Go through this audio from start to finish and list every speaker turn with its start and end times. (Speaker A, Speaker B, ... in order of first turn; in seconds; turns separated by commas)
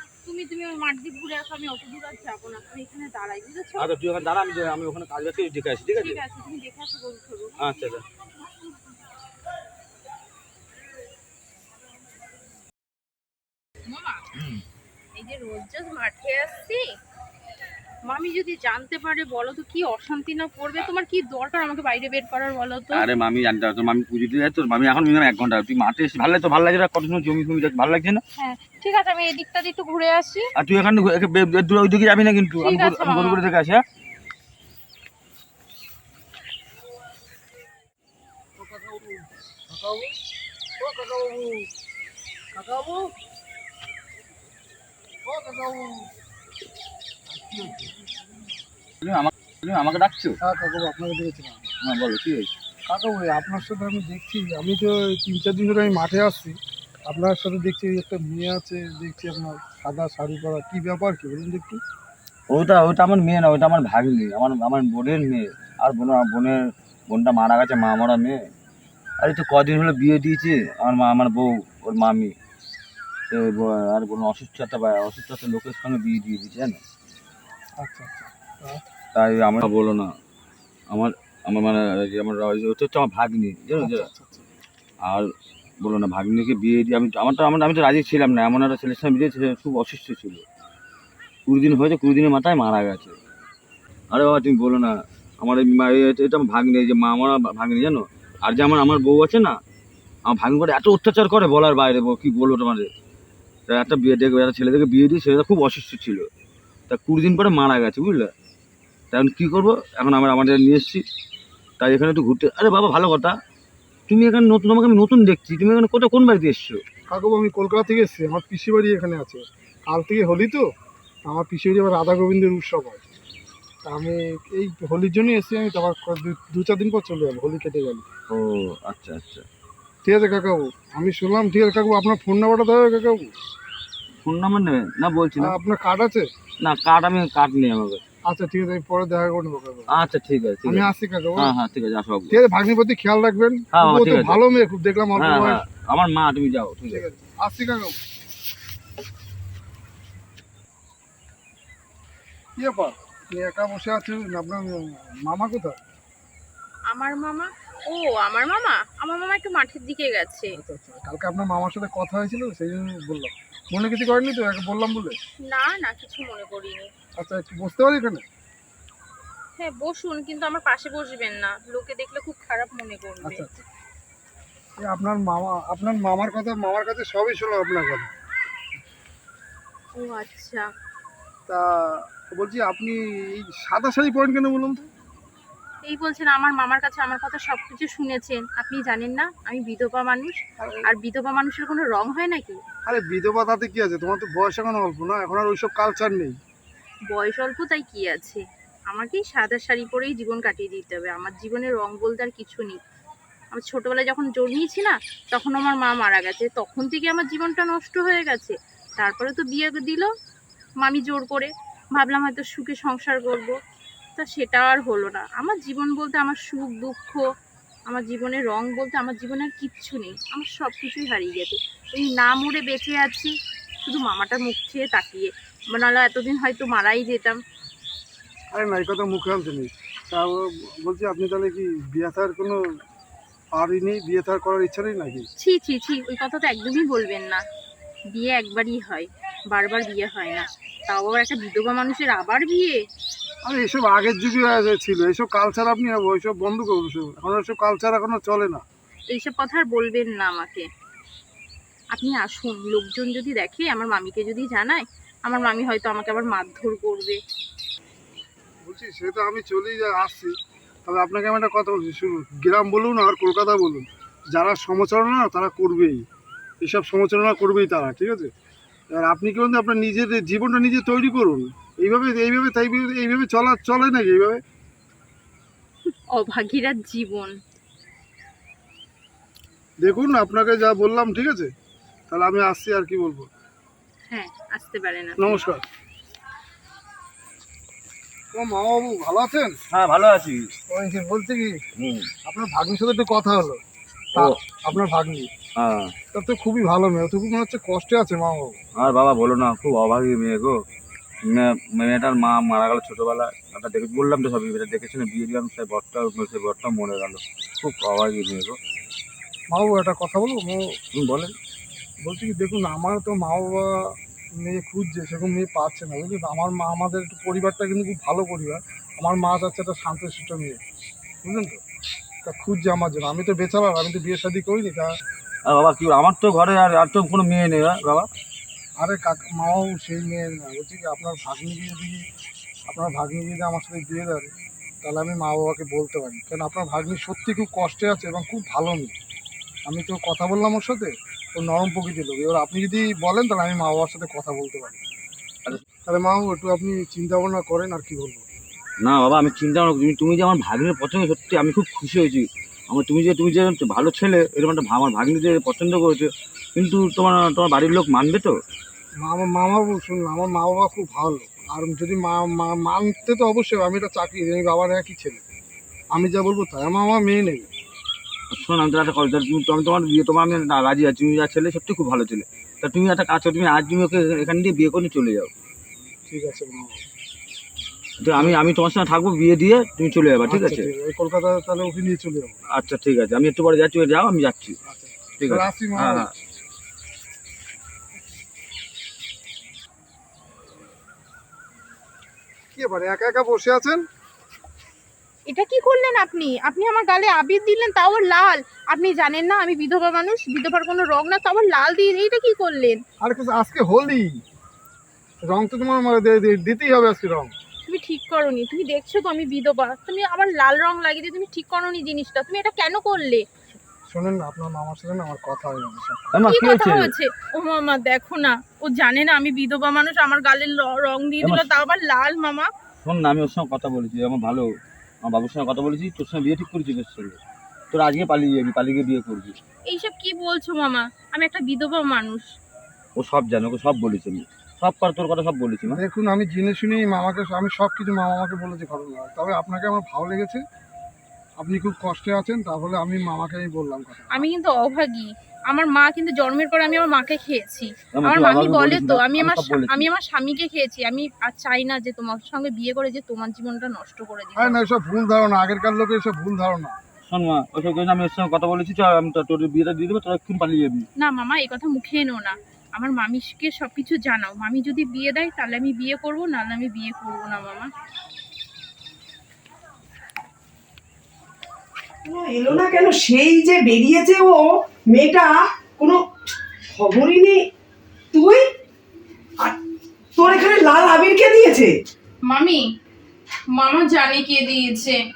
Speaker A: 0.2-3.9, Speaker B: 3.8-6.2, Speaker A: 6.0-7.9, Speaker B: 7.6-8.1, Speaker A: 13.9-14.2, Speaker A: 15.2-17.0, Speaker A: 18.1-23.0, Speaker B: 22.9-28.2, Speaker A: 28.4-30.5, Speaker B: 30.6-33.8, Speaker A: 32.6-33.4, Speaker C: 38.6-40.1, Speaker C: 40.8-41.7, Speaker C: 42.5-43.1, Speaker C: 45.2-46.1, Speaker C: 47.3-47.9, Speaker B: 49.0-50.4, Speaker C: 50.4-51.7, Speaker B: 51.8-52.5, Speaker C: 52.9-61.8, Speaker B: 62.5-68.4, Speaker B: 69.2-72.3, Speaker B: 73.3-76.8, Speaker C: 77.8-78.8, Speaker B: 79.2-80.1, Speaker B: 80.9-84.1, Speaker C: 83.8-84.5, Speaker B: 85.0-85.3, Speaker B: 85.8-90.5, Speaker B: 91.5-93.2, Speaker B: 94.1-99.6, Speaker B: 100.3-102.9, Speaker B: 103.7-106.3, Speaker B: 106.9-108.3, Speaker B: 109.1-111.0, Speaker B: 111.8-113.4, Speaker B: 114.1-116.8, Speaker C: 117.1-120.7, Speaker C: 121.3-123.0, Speaker C: 123.8-128.1, Speaker B: 128.3-129.4, Speaker C: 130.0-133.3, Speaker B: 134.2-135.6, Speaker C: 135.4-136.3, Speaker B: 136.6-138.0, Speaker C: 138.3-139.9, Speaker B: 139.9-142.4, Speaker C: 140.7-141.5, Speaker C: 142.3-145.6, Speaker B: 143.7-144.4, Speaker B: 145.2-147.1, Speaker C: 146.9-148.0, Speaker C: 152.6-155.8, Speaker A: 156.9-160.6, Speaker C: 160.5-165.2, Speaker A: 165.4-166.9, Speaker C: 167.2-168.2, Speaker A: 169.6-173.5, Speaker C: 173.2-173.6, Speaker C: 174.8-178.1, Speaker A: 180.0-180.7, Speaker C: 181.5-184.9, Speaker A: 185.8-192.6, Speaker C: 190.6-190.8, Speaker C: 192.9-196.4, Speaker A: 197.1-202.8, Speaker A: 203.5-210.1, Speaker A: 210.8-213.6, Speaker A: 214.2-217.2, Speaker A: 217.9-223.3, Speaker A: 223.8-227.4, Speaker C: 228.5-232.8, Speaker C: 233.6-235.3, Speaker A: 235.4-237.4, Speaker A: 238.1-242.8, Speaker C: 243.5-248.6, Speaker A: 249.1-250.7, Speaker A: 251.9-257.2, Speaker C: 258.6-266.1, Speaker C: 266.6-268.3, Speaker C: 268.9-274.4, Speaker A: 276.1-277.4, Speaker C: 279.8-281.5, Speaker C: 282.1-283.3, Speaker A: 284.1-285.4, Speaker C: 285.2-285.6, Speaker C: 288.3-289.6, Speaker B: 289.7-290.5, Speaker C: 290.7-291.6, Speaker B: 291.8-292.1, Speaker C: 292.2-293.6, Speaker C: 294.1-295.3, Speaker B: 295.6-295.9, Speaker C: 296.1-298.6, Speaker B: 298.8-300.6, Speaker B: 301.2-308.6, Speaker C: 309.5-310.8, Speaker B: 310.9-311.3, Speaker C: 312.0-320.6, Speaker C: 321.2-321.6, Speaker C: 322.2-324.9, Speaker B: 325.5-328.1, Speaker C: 328.8-332.1, Speaker C: 332.7-338.9, Speaker C: 339.7-344.8, Speaker C: 345.9-348.2, Speaker B: 348.8-358.4, Speaker C: 359.0-365.2, Speaker C: 365.9-367.5, Speaker B: 368.3-375.3, Speaker C: 376.1-376.9, Speaker B: 378.0-380.7, Speaker C: 380.3-382.4, Speaker B: 382.5-384.6, Speaker C: 384.7-386.1, Speaker B: 385.2-386.1, Speaker C: 392.6-393.9, Speaker A: 395.3-402.8, Speaker C: 403.0-404.2, Speaker C: 405.2-407.3, Speaker A: 407.7-413.3, Speaker C: 413.9-416.2, Speaker B: 416.1-416.9, Speaker A: 416.2-422.5, Speaker B: 421.2-421.5, Speaker B: 422.8-424.5, Speaker B: 425.0-427.2, Speaker B: 427.7-429.4, Speaker A: 429.7-432.3, Speaker B: 433.0-435.8, Speaker C: 435.7-440.4, Speaker C: 441.4-444.3, Speaker A: 444.1-454.6, Speaker B: 448.0-449.9, Speaker C: 454.4-456.8, Speaker B: 457.1-460.9, Speaker A: 461.0-467.7, Speaker D: 472.1-476.0, Speaker D: 476.7-477.4, Speaker D: 478.1-478.4, Speaker D: 480.2-481.8, Speaker A: 482.3-482.6, Speaker A: 483.5-485.0